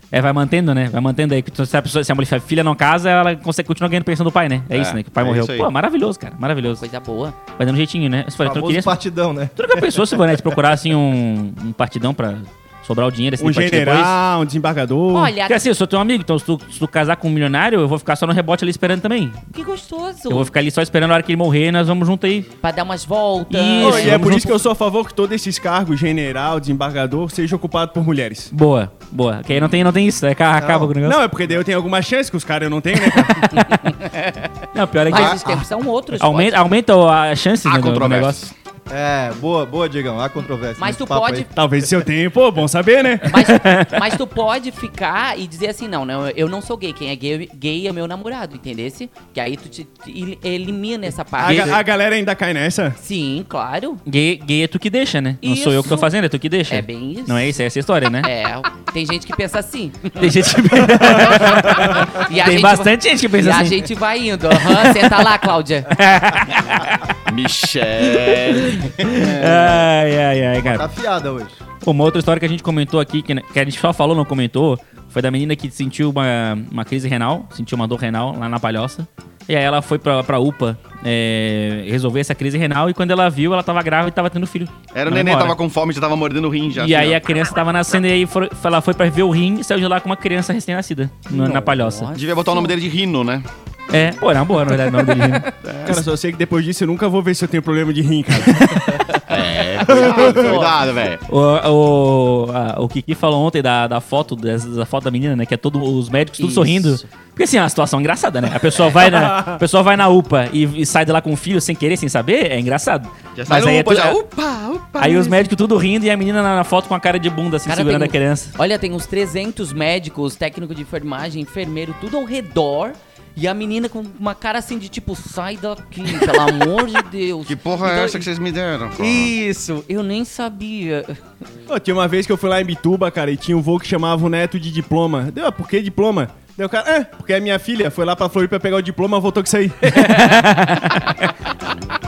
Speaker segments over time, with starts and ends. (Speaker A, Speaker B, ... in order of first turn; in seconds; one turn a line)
Speaker A: 0.1-6.8
Speaker B: 4.7-5.7
Speaker C: 6.8-7.4
Speaker A: 7.6-9.0
Speaker D: 8.4-10.5
Speaker A: 9.6-14.2
Speaker E: 13.4-15.3
Speaker C: 15.1-15.6
Speaker A: 15.5-19.4
Speaker C: 19.5-20.5
Speaker A: 20.3-22.5
Speaker C: 22.6-24.2
Speaker A: 23.5-24.6
Speaker E: 23.8-28.5
Speaker A: 28.5-31.2
Speaker D: 30.6-30.9
Speaker E: 31.0-33.6
Speaker A: 33.1-33.9
Speaker C: 33.9-34.5
Speaker A: 34.7-35.5
Speaker C: 35.1-36.8
Speaker D: 35.1-35.7
Speaker A: 36.2-38.4
Speaker B: 37.6-38.5
Speaker D: 38.9-41.5
Speaker C: 40.8-41.5
Speaker E: 41.5-43.3
Speaker C: 43.3-51.8
Speaker A: 43.3-44.0
Speaker E: 51.4-53.0
Speaker A: 51.4-51.8
Speaker C: 53.0-54.0
Speaker A: 54.1-58.3
Speaker C: 55.4-56.1
Speaker C: 56.7-57.6
Speaker C: 58.2-65.9
Speaker A: 60.2-63.8
Speaker A: 64.5-65.2
Speaker A: 65.9-67.2
Speaker B: 67.3-69.9
Speaker A: 68.0-70.9
Speaker D: 70.6-71.6
Speaker A: 71.8-85.6
Speaker B: 84.9-87.2
Speaker A: 86.8-92.1
Speaker C: 91.3-92.7
Speaker B: 92.1-93.5
Speaker A: 93.9-95.5
Speaker B: 95.7-96.0
Speaker E: 95.9-99.0
Speaker A: 98.5-99.2
Speaker B: 99.3-101.2
Speaker E: 99.8-100.7
Speaker C: 100.0-100.6
Speaker A: 101.3-114.2
Speaker C: 106.4-107.0
Speaker B: 113.4-115.5
Speaker A: 115.0-118.5
Speaker C: 117.7-128.3
Speaker B: 127.5-129.3
Speaker C: 129.0-131.2
Speaker E: 131.7-140.0
Speaker A: 139.9-141.3